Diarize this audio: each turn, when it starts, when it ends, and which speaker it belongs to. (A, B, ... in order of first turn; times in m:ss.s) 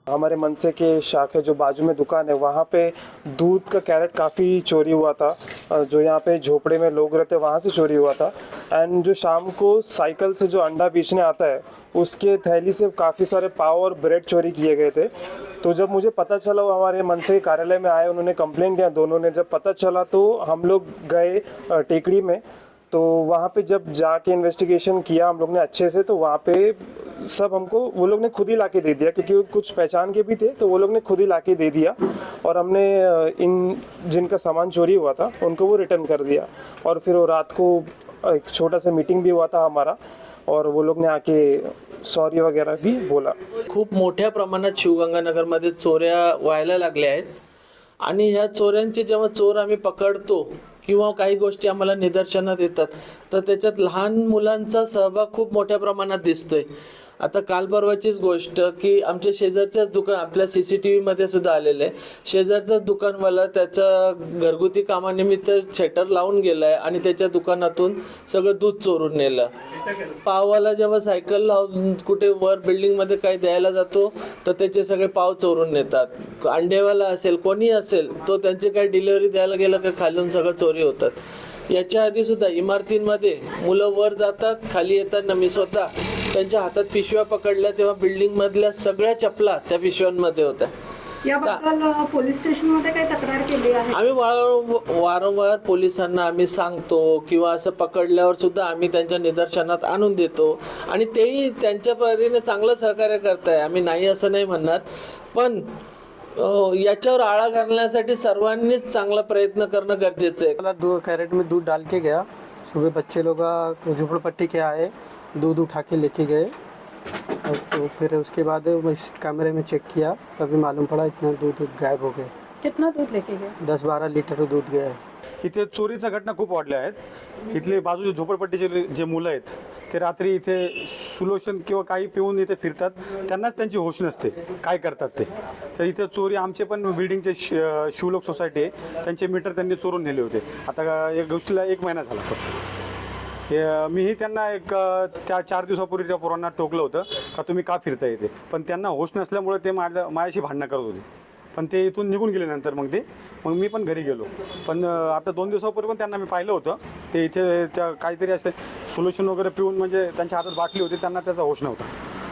0:00.1-0:15.1 A
0:15.6-0:43.4 A
0:43.7-0:47.3 B
0:48.0-0:56.7 B
0:57.2-1:09.5 B
1:10.0-1:21.2 B
1:21.7-1:30.7 B
1:31.3-1:33.9 C
1:31.4-1:31.6 B
1:33.9-1:45.6 B
1:46.4-1:50.6 B
1:50.6-1:56.5 D
1:57.4-2:02.3 D
2:02.6-2:03.6 C
2:03.6-2:05.0 D
2:05.4-2:07.0 E
2:07.5-2:22.6 E
2:23.5-2:41.9 E